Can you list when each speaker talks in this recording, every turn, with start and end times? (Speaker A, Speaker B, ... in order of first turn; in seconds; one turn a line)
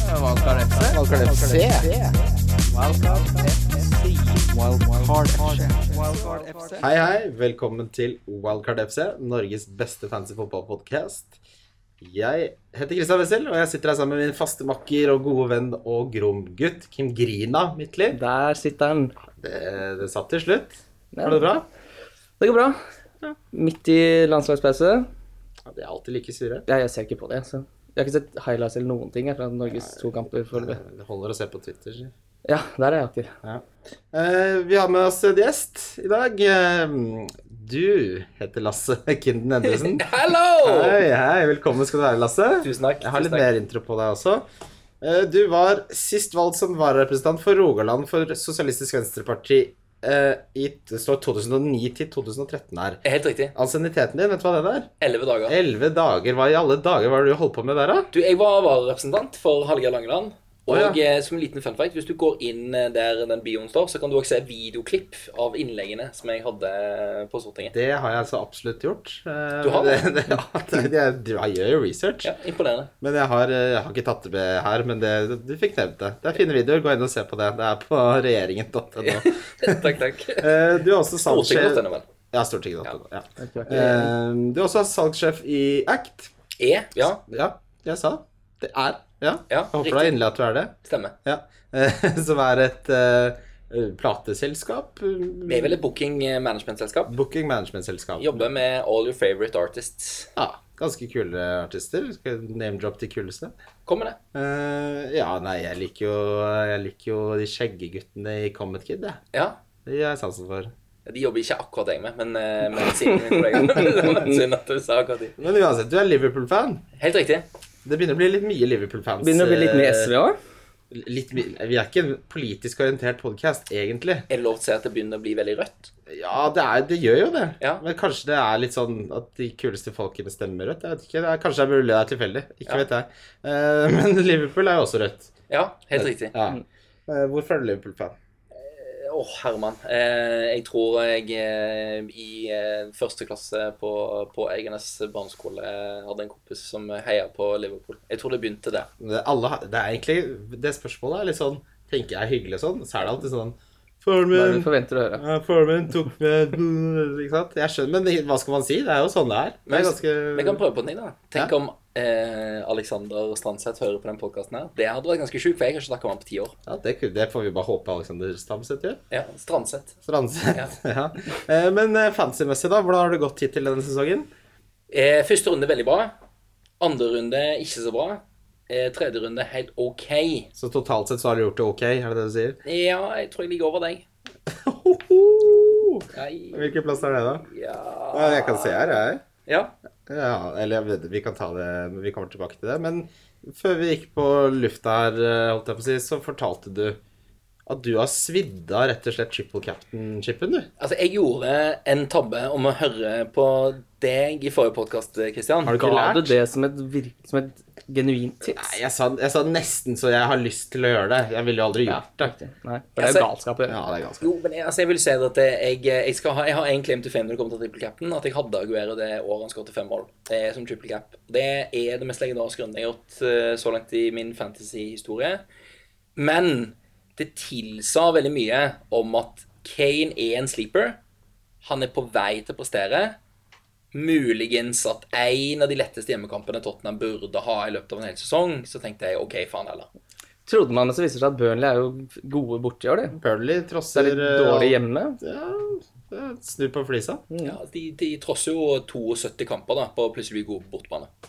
Speaker A: 0.1-0.9
Speaker B: 0.3-1.7
Speaker C: 0.9-1.9
Speaker B: 2.7-3.5
Speaker B: 4.4-6.8
Speaker C: 6.8-11.4
Speaker C: 12.0-18.2
Speaker A: 18.1-19.1
Speaker C: 19.4-21.6
Speaker A: 21.1-21.5
Speaker A: 22.4-22.8
Speaker A: 23.5-25.1
Speaker C: 25.7-26.6
Speaker A: 26.7-30.8
Speaker C: 30.5-32.1
Speaker A: 32.4-33.3
Speaker C: 33.4-40.1
Speaker D: 39.7-41.0
Speaker C: 40.6-44.4
Speaker D: 42.6-43.5
Speaker C: 45.0-53.0
Speaker D: 53.0-53.5
Speaker C: 53.5-54.9
Speaker D: 55.0-55.5
Speaker C: 55.5-58.1
Speaker D: 58.1-67.7
Speaker C: 60.7-61.0
Speaker C: 67.7-72.3
Speaker D: 69.6-70.1
Speaker D: 72.2-72.9
Speaker C: 73.0-86.3
Speaker D: 79.0-80.6
Speaker D: 81.2-82.0
Speaker A: 83.4-84.1
Speaker D: 86.6-87.2
Speaker C: 87.3-90.7
Speaker D: 89.5-90.2
Speaker D: 90.8-91.1
Speaker C: 91.2-95.8
Speaker D: 95.5-97.1
Speaker C: 97.1-98.5
Speaker D: 98.2-100.3
Speaker C: 100.3-103.5
Speaker D: 103.8-104.2
Speaker C: 104.3-109.2
Speaker D: 109.3-109.6
Speaker C: 109.8-110.7
Speaker D: 111.0-115.3
Speaker A: 113.5-114.0
Speaker C: 115.4-116.8
Speaker D: 117.0-117.5
Speaker C: 117.8-120.1
Speaker A: 119.2-120.3
Speaker C: 120.9-124.2
Speaker D: 124.3-125.9
Speaker C: 126.1-135.3
Speaker D: 135.5-136.3
Speaker C: 135.9-138.1
Speaker D: 138.5-148.9
Speaker C: 149.0-160.6
Speaker A: 154.3-155.2
Speaker D: 159.7-166.5
Speaker C: 166.7-169.0
Speaker D: 169.1-169.9
Speaker C: 170.0-174.3
Speaker D: 174.9-176.1
Speaker D: 176.8-180.5
Speaker C: 180.6-182.6
Speaker D: 182.6-184.0
Speaker C: 184.5-187.4
Speaker D: 186.1-189.7
Speaker C: 188.1-189.2
Speaker C: 190.1-197.0
Speaker C: 197.7-200.7
Speaker D: 200.8-205.8
Speaker C: 205.6-206.3
Speaker A: 205.7-208.8
Speaker C: 208.4-212.3
Speaker A: 211.8-213.8
Speaker D: 213.0-213.3
Speaker C: 213.7-214.3
Speaker D: 214.2-225.4
Speaker D: 226.2-231.0
Speaker D: 231.6-233.2
Speaker D: 233.9-239.9
Speaker A: 240.5-243.2
Speaker C: 243.1-247.2
Speaker A: 243.9-245.2
Speaker A: 247.3-247.6
Speaker D: 247.4-251.1